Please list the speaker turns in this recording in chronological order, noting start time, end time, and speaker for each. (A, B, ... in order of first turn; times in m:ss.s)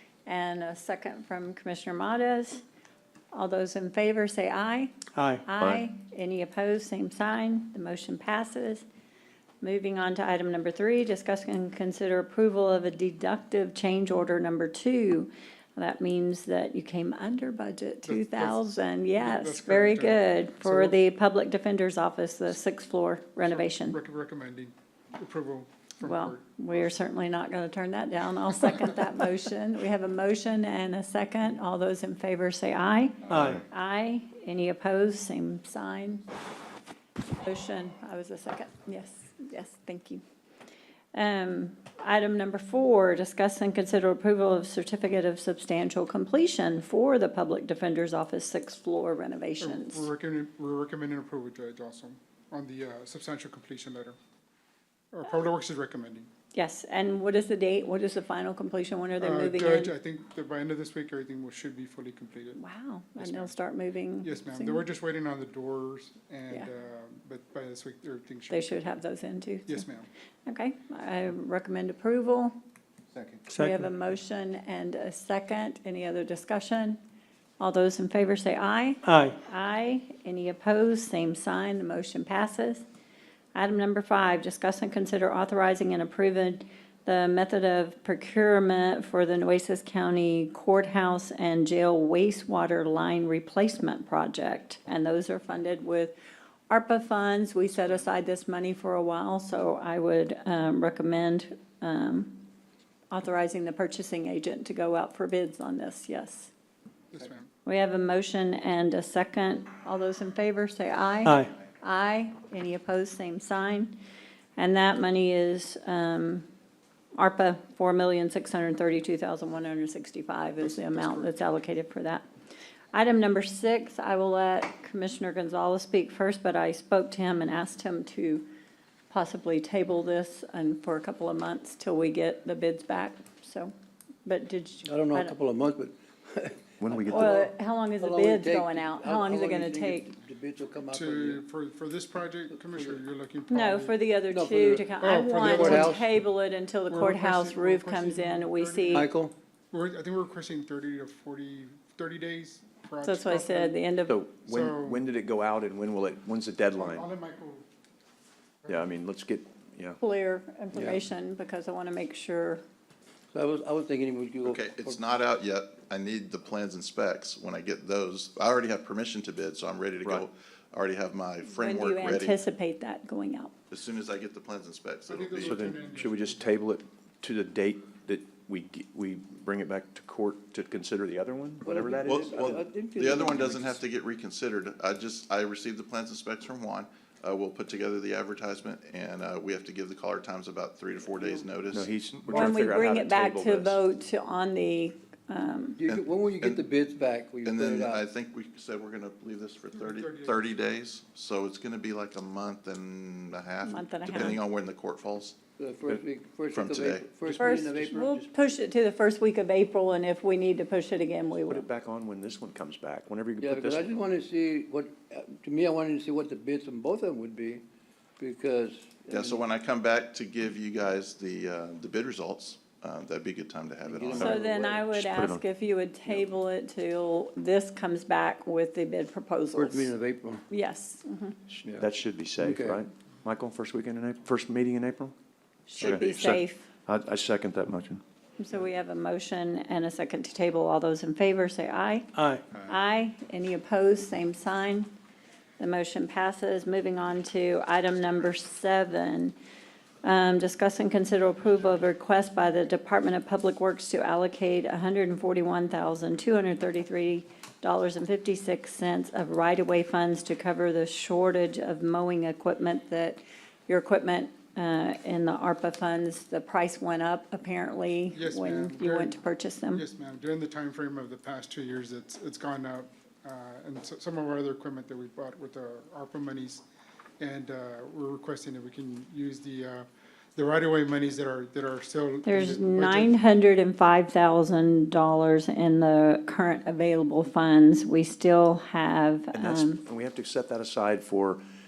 0:00.3-0:02.6 A
0:03.3-0:08.8 A
0:05.2-0:05.4 B
0:09.6-0:24.0 A
0:18.0-0:21.0 C
0:23.4-0:26.4 C
0:26.0-0:36.3 A
0:33.3-0:33.6 B
0:37.4-0:40.2 A
0:41.1-0:50.1 A
0:49.6-0:54.2 C
0:55.1-0:56.3 C
0:56.5-0:59.9 A
0:59.2-1:02.6 C
1:02.6-1:04.8 A
1:03.2-1:03.5 C
1:04.2-1:08.8 C
1:08.5-1:09.9 A
1:09.7-1:10.1 C
1:10.5-1:12.6 A
1:13.1-1:13.4 C
1:13.5-1:13.9 B
1:13.5-1:17.0 A
1:17.6-1:22.8 A
1:19.0-1:19.4 B
1:23.6-1:36.2 A
1:36.7-1:42.4 A
1:43.1-1:46.5 A
1:47.1-1:47.5 C
1:47.7-1:54.0 A
1:51.2-1:51.5 B
1:54.6-1:56.5 A
1:57.2-2:02.2 A
2:00.6-2:01.3 C
2:02.9-2:08.5 A
2:09.1-2:13.7 A
2:14.3-2:15.4 A
2:14.9-2:21.4 D
2:16.8-2:17.4 E
2:17.1-2:20.1 A
2:20.9-2:24.0 C
2:22.6-2:23.0 D
2:23.5-2:29.1 A
2:24.3-2:26.1 D
2:25.0-2:26.0 C
2:26.9-2:29.1 C
2:28.9-2:29.3 D
2:29.7-2:33.8 C
2:33.0-2:34.2 A
2:34.1-2:37.1 E
2:34.5-2:35.0 C
2:36.8-2:37.7 C
2:38.7-2:40.0 E
2:40.0-2:42.6 A
2:43.3-2:45.0 D
2:44.4-2:52.4 F
2:50.0-2:50.3 E
2:51.5-2:53.5 A
2:53.7-2:55.6 F
2:55.1-2:56.4 C
2:55.4-3:02.3 E
3:01.6-3:03.8 D
3:02.0-3:11.9 F
3:11.7-3:13.8 E
3:12.3-3:15.8 A
3:15.8-3:18.0 D
3:15.8-3:16.6 F
3:17.4-3:25.4 F
3:19.7-3:20.4 C
3:23.6-3:24.4 A
3:25.6-3:28.2 D
3:26.5-3:27.1 F
3:27.2-3:28.3 E
3:27.4-3:31.6 A
3:31.5-3:33.9 E
3:33.4-3:37.6 D
3:38.2-3:39.4 D
3:39.1-3:44.4 F
3:43.8-3:44.9 D
3:44.2-3:49.9 A
3:44.9-3:45.4 E
3:49.6-3:50.4 D
3:50.5-3:51.4 A
3:51.5-3:55.2 E
3:52.4-3:52.8 D
3:55.7-3:56.7 A
3:55.8-3:58.0 E
3:58.4-4:02.1 A
4:02.2-4:02.4 B
4:02.5-4:02.8 C
4:02.7-4:04.9 A
4:05.6-4:09.4 A
4:10.0-4:29.8 A
4:28.1-4:29.2 C
4:29.7-4:36.6 C
4:37.2-4:43.2 C
4:42.3-4:49.8 A
4:49.3-4:51.4 E